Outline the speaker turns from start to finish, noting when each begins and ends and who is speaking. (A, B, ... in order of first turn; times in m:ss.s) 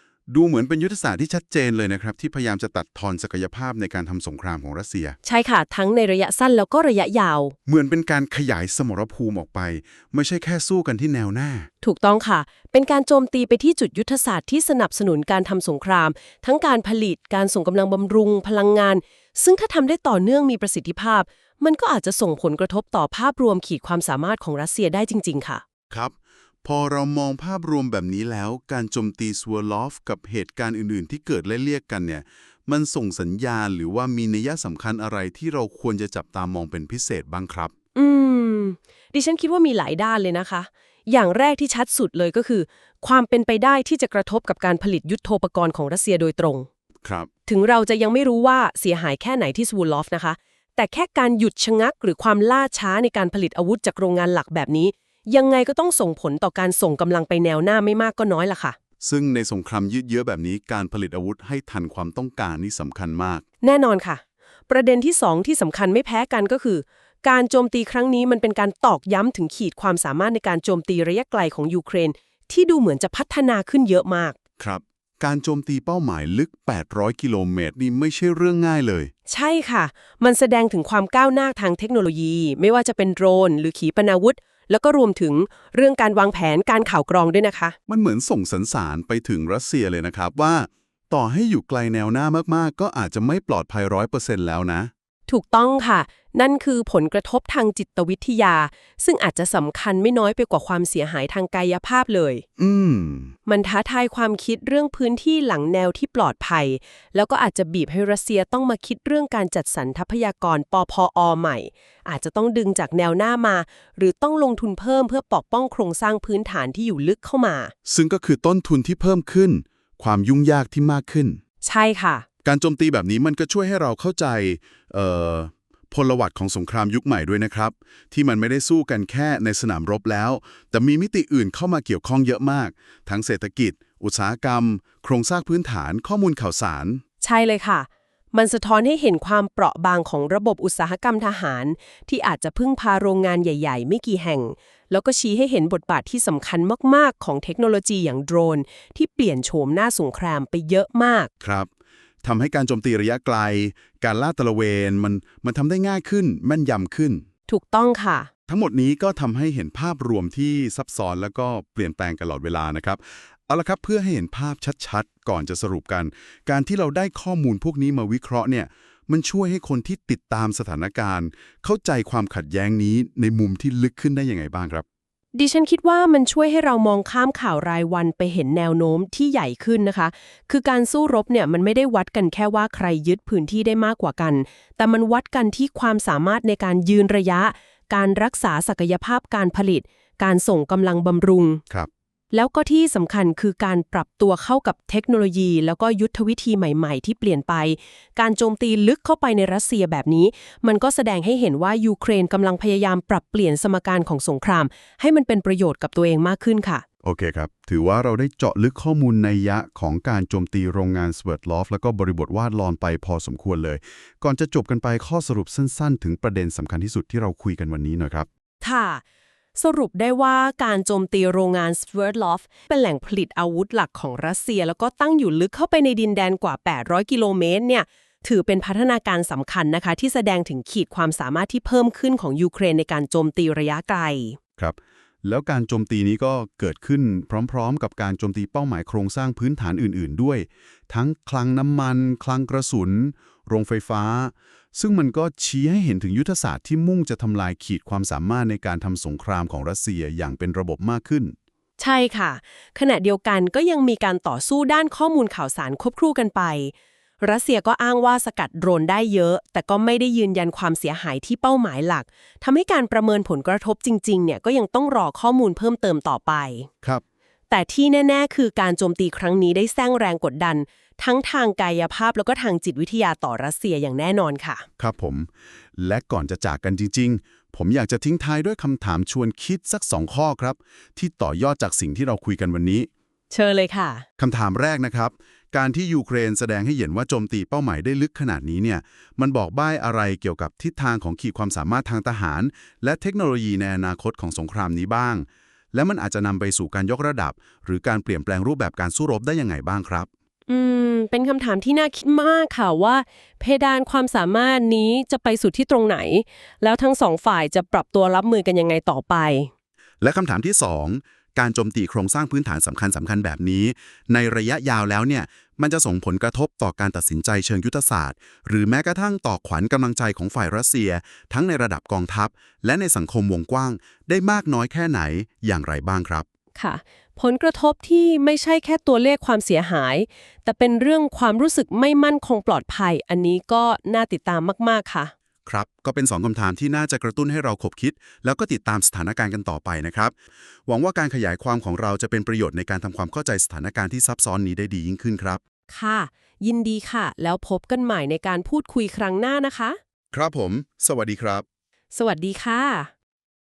0:00.3-0:05.2 A
0:05.2-0:07.5 B
0:07.6-0:11.7 A
0:11.8-0:25.6 B
0:25.9-0:37.7 A
0:37.9-0:46.7 B
0:47.5-0:58.8 B
0:59.0-1:03.4 A
1:03.6-1:14.4 B
1:14.6-1:19.1 A
1:19.3-1:27.8 B
1:27.9-1:34.9 A
1:35.3-1:42.4 B
1:42.6-1:43.3 A
1:43.4-1:57.7 B
1:57.9-2:01.4 A
2:01.6-2:02.2 B
2:02.4-2:17.0 A
2:17.2-2:31.3 B
2:31.4-2:31.7 A
2:32.2-2:37.2 A
2:37.5-2:38.3 B
2:38.5-2:54.8 A
2:55.3-3:11.6 B
3:12.3-3:26.8 B
3:27.0-3:38.3 A
3:38.6-3:39.0 B
3:39.6-3:54.4 B
3:54.6-4:11.3 A
4:11.8-4:26.7 B
4:27.5-4:34.6 B
4:34.8-4:42.9 A
4:43.3-4:44.0 B
4:44.2-5:00.1 A
5:00.5-5:09.5 B
5:10.0-5:26.2 A
5:26.6-5:35.1 B
5:35.4-5:40.1 A
5:40.6-5:45.4 A
5:45.7-5:49.8 B
5:50.1-5:51.4 A
5:51.9-5:52.9 B